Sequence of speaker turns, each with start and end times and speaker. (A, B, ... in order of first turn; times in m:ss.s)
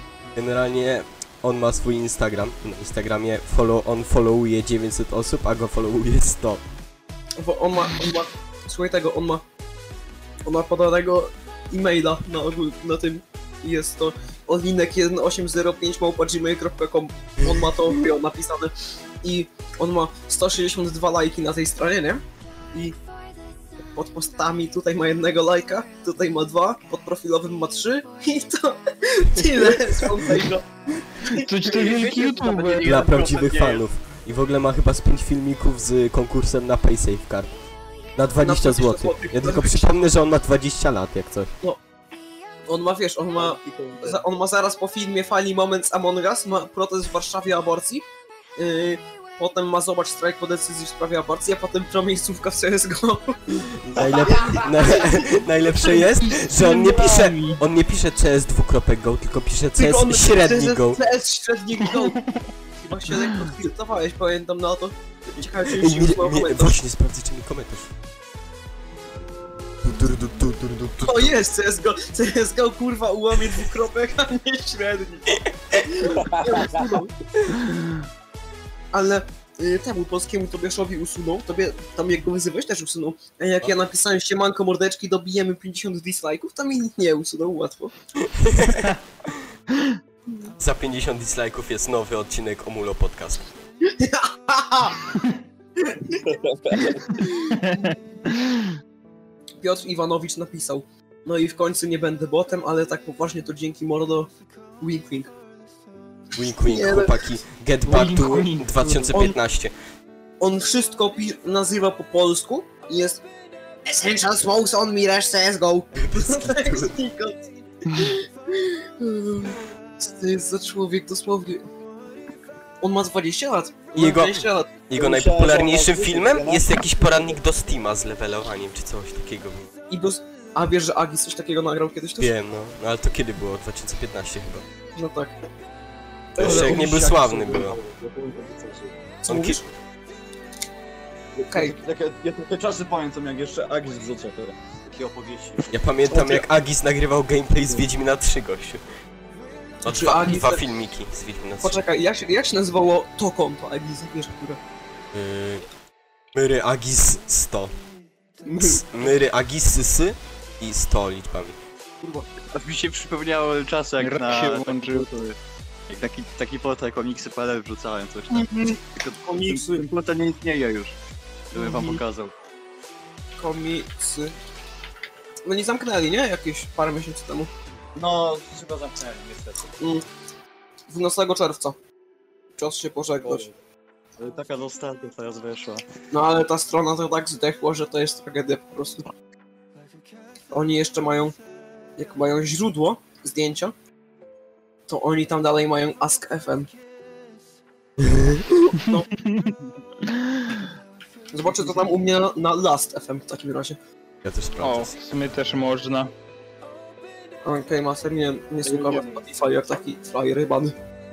0:00.3-0:06.6 A
0:07.4-0:09.4 B
0:10.4-0:23.0 B
0:23.9-0:31.5 B
0:31.3-0:33.0 C
0:31.7-0:33.8 D
0:32.8-0:37.5 A
0:38.2-0:41.5 A
0:38.4-0:40.0 B
0:42.7-0:55.3 B
0:43.4-0:44.2 D
0:53.6-1:01.0 A
0:56.2-0:57.6 C
0:59.8-1:06.8 B
1:05.4-1:07.9 A
1:09.8-1:11.4 A
1:11.0-1:17.1 B
1:16.0-1:17.0 D
1:18.9-1:27.9 B
1:28.2-1:29.4 A
1:30.6-1:33.5 A
1:33.8-1:35.2 B
1:35.8-1:37.7 B
1:36.2-1:37.2 D
1:37.4-1:38.8 C
1:39.6-1:45.3 B
1:46.3-1:49.7 A
1:46.5-1:47.2 B
1:47.8-1:49.1 C
1:50.4-1:53.2 B
1:53.8-2:01.7 B
1:56.0-1:56.9 A
2:02.8-2:04.8 B
2:04.0-2:09.7 A
2:04.9-2:07.4 D
2:09.9-2:12.3 B
2:12.2-2:14.6 A
2:14.9-2:15.3 B
2:16.4-2:17.8 A
2:16.4-2:18.9 D
2:16.4-2:17.0 B
2:19.2-2:19.7 B
2:19.3-2:19.6 A
2:21.3-2:25.7 D
2:21.5-2:21.8 B
2:25.7-2:28.8 A
2:26.1-2:26.4 B
2:29.8-2:31.8 A
2:29.8-2:30.6 B
2:31.6-2:34.6 B
2:35.1-2:35.6 A
2:36.3-2:37.7 A
2:38.4-2:38.8 B
2:38.6-2:41.6 A
2:42.0-2:42.3 B
2:42.5-2:45.4 D
2:44.0-2:45.1 C
2:45.9-2:51.0 D
2:48.3-2:49.9 B
2:51.5-2:52.3 D
2:51.5-2:52.0 B
2:53.4-2:54.3 B
2:55.4-2:57.5 B
2:58.0-2:59.7 D
2:59.8-3:00.0 B
3:00.9-3:01.8 B
3:02.6-3:03.5 B
3:03.2-3:03.6 D
3:04.2-3:05.8 D
3:06.1-3:09.1 B
3:10.5-3:11.3 B
3:12.0-3:13.7 B
3:14.9-3:16.7 B
3:18.0-3:18.4 A
3:18.7-3:19.1 B
3:19.2-3:20.7 C
3:21.3-3:23.8 B
3:24.2-3:24.9 A
3:24.6-3:26.1 C
3:27.4-3:30.8 B
3:28.6-3:29.2 D